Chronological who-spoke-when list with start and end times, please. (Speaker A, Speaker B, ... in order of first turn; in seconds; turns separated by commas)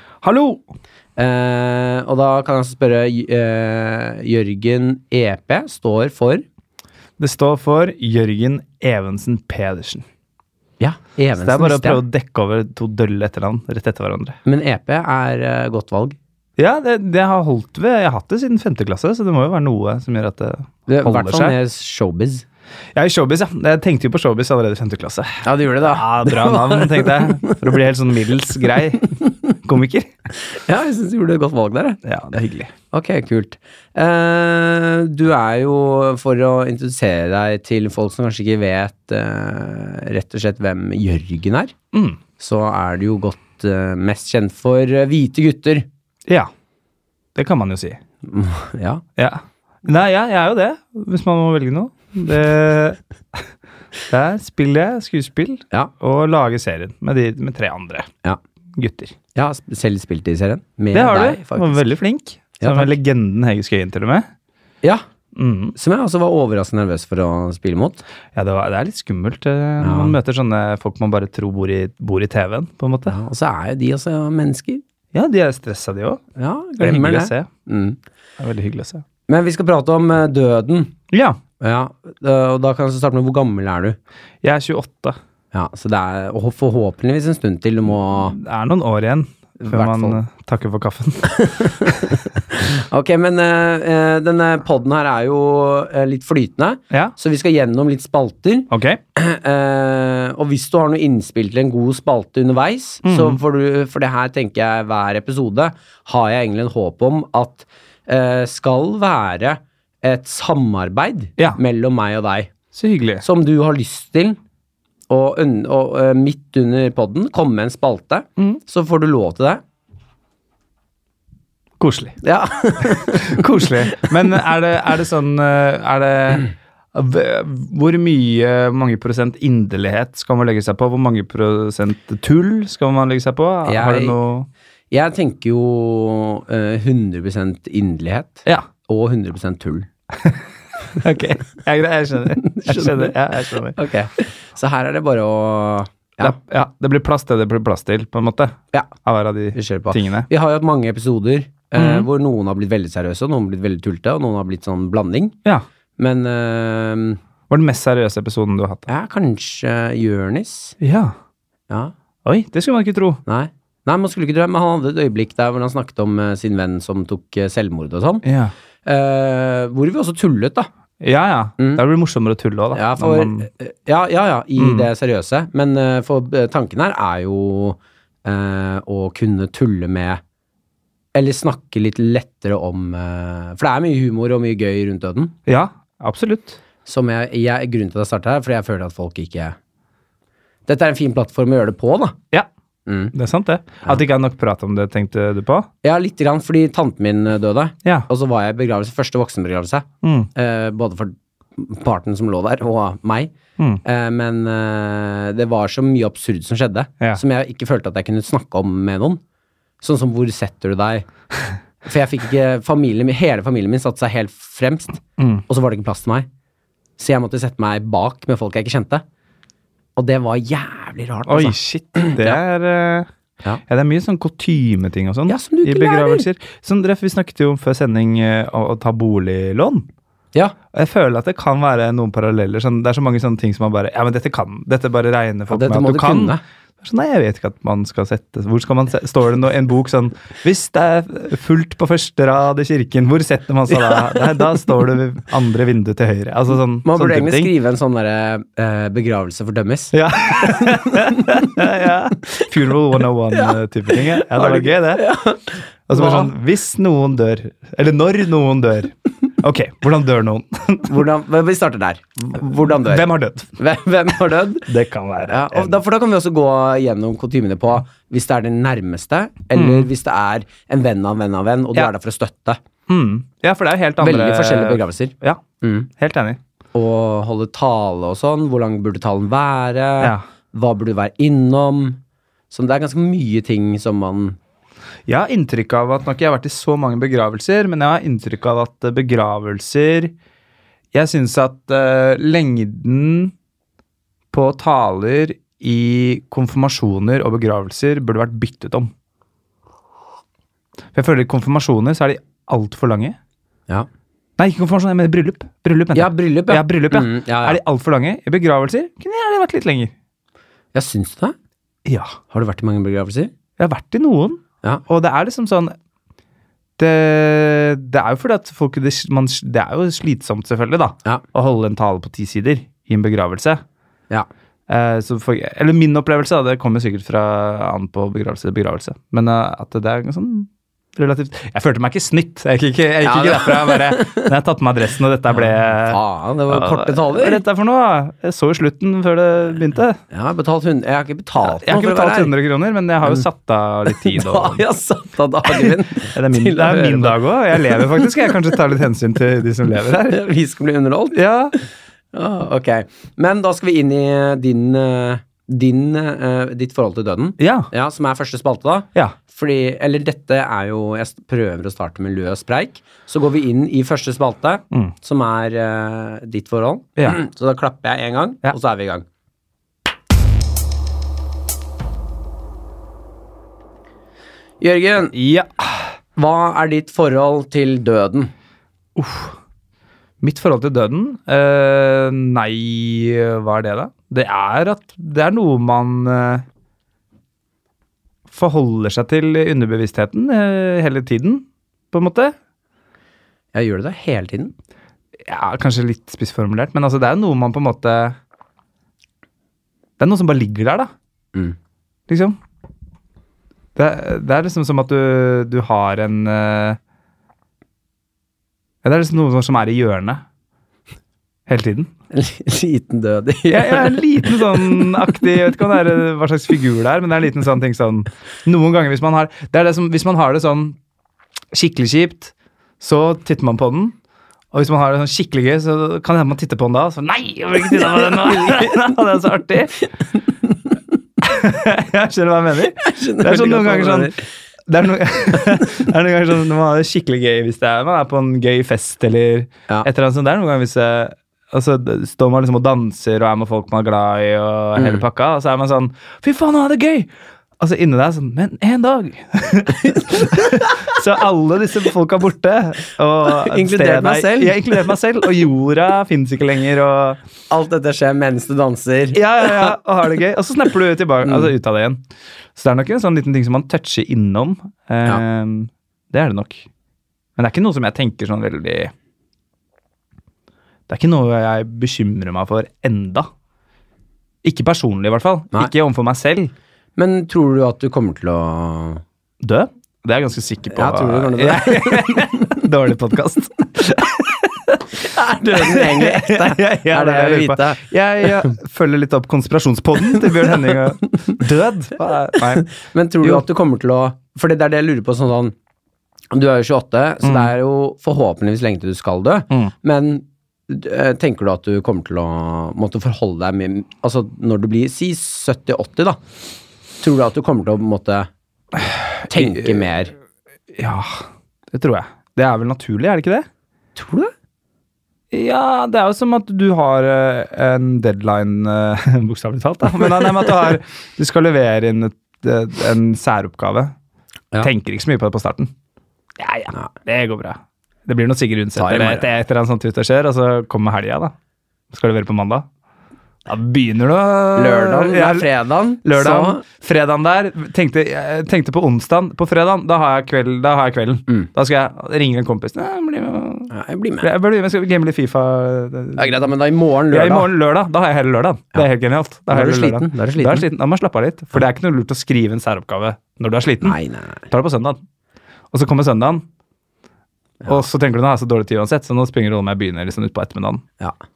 Speaker A: 0.2-0.6, Speaker B: 1.2-6.5, Speaker A: 7.2-10.0, Speaker B: 10.8-12.0, Speaker A: 11.4-14.4, Speaker B: 14.4-16.2, Speaker A: 16.6-21.5, Speaker B: 20.9-22.4, Speaker A: 22.9-30.1, Speaker B: 25.4-27.6, Speaker B: 30.5-32.0, Speaker A: 32.0-32.7, Speaker B: 32.9-41.7, Speaker A: 41.9-42.2, Speaker B: 42.4-45.9, Speaker A: 47.3-48.0, Speaker B: 48.2-49.0, Speaker A: 49.2-53.5, Speaker A: 54.1-58.1, Speaker A: 58.7-59.1, Speaker B: 59.3-61.9, Speaker A: 60.9-64.3, Speaker B: 62.6-62.9, Speaker A: 65.3-65.8, Speaker B: 65.8-68.0, Speaker A: 68.3-73.2, Speaker B: 69.8-70.2, Speaker B: 73.1-74.8, Speaker A: 75.1-76.2, Speaker B: 76.4-78.0, Speaker A: 76.8-77.5, Speaker A: 78.4-79.0, Speaker B: 79.3-80.9, Speaker A: 81.1-81.4, Speaker B: 81.6-84.0, Speaker A: 84.4-85.2, Speaker B: 85.5-88.4, Speaker A: 88.3-92.0, Speaker B: 89.6-90.2, Speaker B: 91.3-112.5, Speaker A: 98.7-99.0, Speaker A: 103.0-103.4, Speaker A: 112.7-113.2, Speaker B: 113.2-114.4, Speaker B: 115.1-119.6, Speaker A: 121.8-122.2, Speaker B: 122.2-124.1, Speaker A: 122.8-134.5, Speaker B: 133.7-134.2, Speaker B: 134.9-139.9, Speaker A: 141.0-143.8, Speaker B: 142.5-143.2, Speaker B: 143.8-146.4, Speaker A: 146.2-150.3, Speaker B: 149.5-155.3, Speaker A: 151.8-152.1, Speaker B: 156.0-157.2, Speaker A: 157.5-158.9, Speaker B: 158.9-160.8, Speaker A: 160.8-161.1, Speaker A: 162.2-163.2, Speaker B: 163.2-168.2, Speaker A: 168.2-168.5, Speaker B: 168.8-170.7, Speaker A: 171.0-173.5, Speaker B: 172.7-180.2, Speaker A: 174.6-174.9, Speaker B: 181.1-185.3, Speaker A: 185.5-186.6, Speaker B: 186.9-189.6, Speaker B: 190.7-192.2, Speaker B: 192.9-193.1, Speaker A: 193.1-195.7, Speaker B: 195.8-209.2, Speaker A: 200.0-200.3, Speaker B: 209.8-211.1, Speaker B: 211.8-216.3, Speaker A: 215.2-215.4, Speaker B: 217.0-219.0, Speaker B: 220.0-222.4, Speaker A: 221.3-223.1, Speaker A: 223.7-229.9, Speaker B: 225.3-226.2, Speaker A: 230.7-247.5, Speaker B: 235.5-236.4, Speaker B: 246.8-251.6, Speaker A: 249.9-255.1, Speaker B: 253.3-256.3, Speaker A: 255.9-260.9, Speaker B: 260.9-264.7, Speaker A: 262.6-263.6, Speaker A: 264.7-265.8, Speaker B: 265.2-272.6, Speaker A: 269.6-269.9, Speaker A: 272.9-275.4, Speaker B: 274.0-275.9, Speaker A: 276.0-276.4, Speaker B: 276.7-282.0, Speaker B: 282.5-284.4, Speaker A: 285.1-290.1, Speaker A: 290.9-293.3, Speaker A: 294.3-298.9, Speaker A: 300.9-303.2, Speaker A: 304.4-309.9, Speaker B: 305.9-307.6, Speaker B: 310.7-311.4, Speaker A: 311.9-312.2, Speaker B: 312.3-313.3, Speaker A: 313.6-315.8, Speaker A: 316.8-323.6, Speaker A: 324.7-336.0, Speaker B: 333.0-334.3, Speaker B: 335.3-337.4, Speaker A: 336.5-340.0, Speaker B: 340.1-342.3, Speaker A: 341.4-344.6, Speaker B: 343.9-348.4, Speaker A: 345.5-350.2, Speaker B: 350.0-369.1, Speaker A: 351.1-351.6, Speaker A: 357.4-357.7, Speaker B: 374.6-375.1, Speaker A: 375.1-375.9, Speaker B: 376.2-378.3, Speaker A: 378.9-379.4, Speaker A: 380.2-386.4, Speaker A: 388.3-392.4, Speaker B: 393.5-394.5, Speaker A: 395.2-398.2, Speaker A: 400.0-400.9, Speaker A: 402.1-402.4, Speaker A: 403.8-406.8, Speaker A: 408.8-410.2, Speaker A: 411.5-411.9, Speaker B: 412.1-414.9, Speaker A: 413.5-420.8, Speaker A: 421.5-423.9, Speaker A: 424.5-429.9, Speaker B: 427.9-428.7, Speaker A: 431.2-434.2, Speaker B: 432.8-434.2, Speaker A: 434.7-457.2, Speaker B: 444.8-445.0, Speaker B: 449.9-450.7, Speaker B: 453.2-454.8, Speaker B: 457.5-459.8, Speaker A: 459.1-462.0, Speaker B: 461.2-461.5, Speaker A: 462.6-466.7, Speaker A: 467.4-468.9, Speaker A: 470.9-473.3, Speaker A: 474.4-476.5, Speaker B: 477.0-479.0, Speaker A: 479.4-485.0, Speaker B: 480.7-482.6, Speaker B: 485.0-488.5, Speaker A: 485.5-492.7, Speaker B: 492.4-495.5, Speaker B: 496.3-506.2, Speaker A: 497.2-497.5, Speaker B: 507.0-508.3, Speaker A: 508.8-509.9, Speaker B: 509.3-510.1, Speaker A: 510.7-513.5, Speaker B: 514.0-514.3, Speaker A: 515.3-523.9, Speaker A: 524.6-525.7, Speaker A: 526.4-531.3, Speaker B: 528.8-529.3, Speaker A: 531.9-532.6, Speaker A: 533.5-535.5, Speaker B: 534.5-536.6, Speaker A: 536.0-543.7, Speaker B: 543.7-544.3, Speaker A: 544.2-546.5, Speaker B: 546.1-547.5, Speaker A: 547.1-554.0, Speaker B: 549.5-550.7, Speaker B: 553.8-554.5, Speaker A: 554.5-555.0, Speaker A: 555.7-556.4, Speaker A: 557.6-560.8